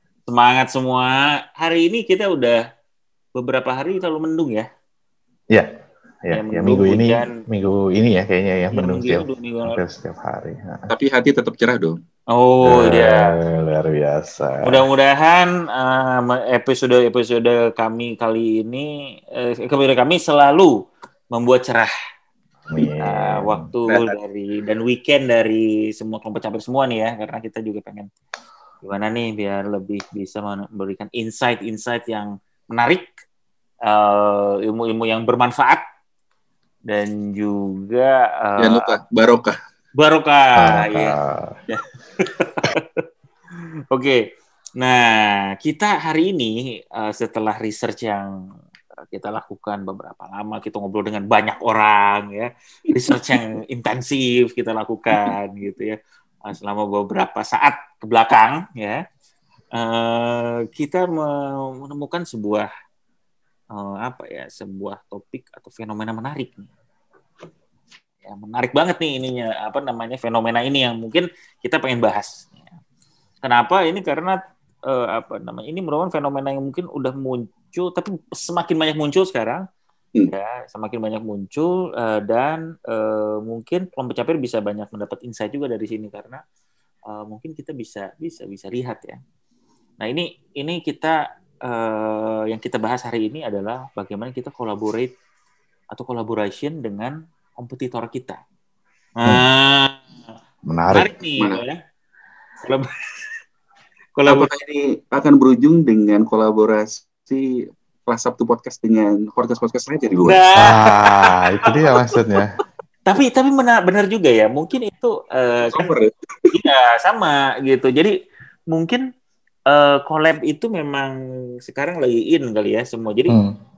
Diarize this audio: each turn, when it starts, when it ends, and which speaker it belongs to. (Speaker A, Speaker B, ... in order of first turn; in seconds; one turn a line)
Speaker A: 0.3-2.6
Speaker A: 3.4-4.7
Speaker B: 6.2-10.9
Speaker A: 6.3-7.4
Speaker A: 8.7-9.8
Speaker C: 10.9-12.0
Speaker A: 12.3-13.3
Speaker B: 12.6-14.8
Speaker A: 14.6-20.8
Speaker A: 21.3-21.9
Speaker B: 22.7-23.7
Speaker A: 22.8-28.1
Speaker A: 28.8-33.1
Speaker A: 33.8-35.8
Speaker A: 36.9-39.0
Speaker C: 38.6-39.6
Speaker A: 40.0-43.0
Speaker B: 40.6-41.6
Speaker A: 43.6-44.2
Speaker A: 44.8-48.3
Speaker A: 49.1-59.0
Speaker A: 59.7-62.7
Speaker A: 63.7-66.7
Speaker A: 68.2-72.7
Speaker A: 73.4-79.6
Speaker A: 80.3-86.4
Speaker A: 87.1-89.2
Speaker A: 90.0-95.1
Speaker A: 95.9-98.4
Speaker A: 99.2-100.1
Speaker B: 100.7-101.1
Speaker A: 100.9-101.8
Speaker A: 102.6-103.3
Speaker A: 104.2-104.5
Speaker C: 104.3-110.4
Speaker A: 110.3-111.7
Speaker B: 110.6-112.5
Speaker A: 113.1-115.9
Speaker C: 115.7-116.5
Speaker A: 116.5-118.2
Speaker A: 118.7-119.0
Speaker A: 119.7-121.1
Speaker A: 121.7-123.4
Speaker B: 123.3-123.5